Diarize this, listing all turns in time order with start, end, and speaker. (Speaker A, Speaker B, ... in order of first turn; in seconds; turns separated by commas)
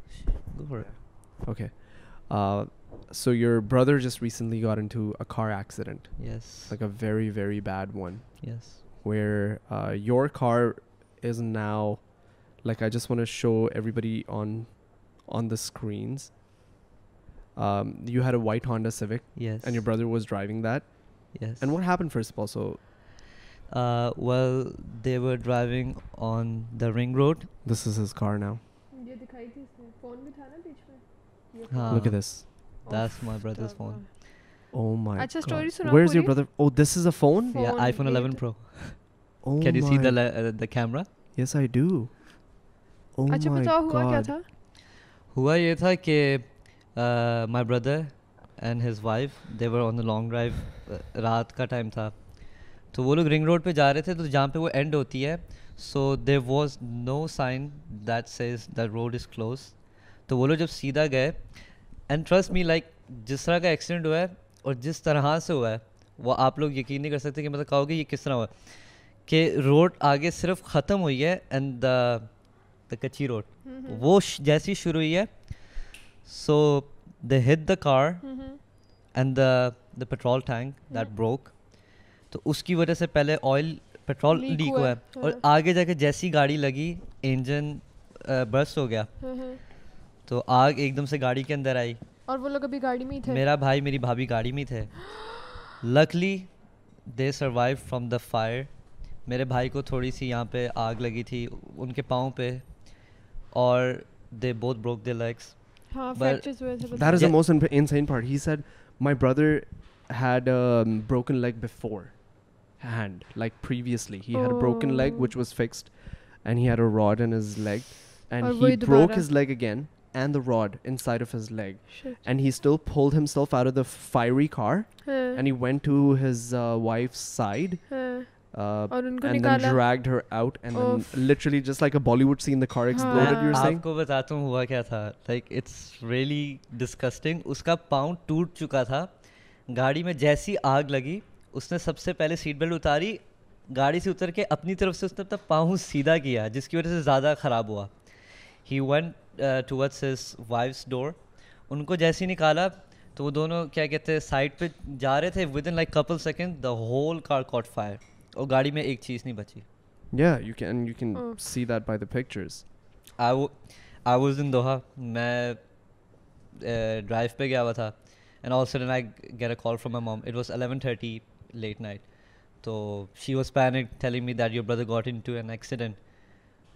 Speaker A: 0.1-1.0, Speaker B: 0.8-16.4, Speaker A: 6.2-6.8, Speaker A: 8.4-8.8, Speaker B: 17.5-22.8, Speaker A: 19.3-19.9, Speaker A: 21.3-21.8, Speaker A: 23.7-27.5, Speaker B: 27.6-28.6, Speaker C: 28.9-32.2, Speaker A: 31.7-34.3, Speaker B: 31.9-32.5, Speaker C: 32.8-34.1, Speaker B: 34.7-37.7, Speaker C: 35.1-36.3, Speaker C: 37.5-38.4, Speaker A: 37.5-41.1, Speaker B: 39.4-40.2, Speaker B: 41.3-44.3, Speaker C: 43.3-44.5, Speaker A: 45.3-92.0, Speaker C: 73.6-74.0, Speaker C: 78.2-78.6, Speaker C: 84.3-85.4, Speaker C: 89.2-89.6, Speaker C: 92.2-93.4, Speaker A: 93.2-95.3, Speaker A: 95.8-107.3, Speaker C: 105.9-107.3, Speaker B: 106.9-133.8, Speaker C: 114.3-115.3, Speaker C: 118.4-119.3, Speaker C: 121.9-122.2, Speaker C: 125.0-125.4, Speaker C: 127.9-129.8, Speaker C: 130.7-131.3, Speaker C: 132.9-133.7, Speaker A: 133.0-159.6, Speaker B: 160.1-162.6, Speaker C: 161.1-161.4, Speaker A: 163.2-176.6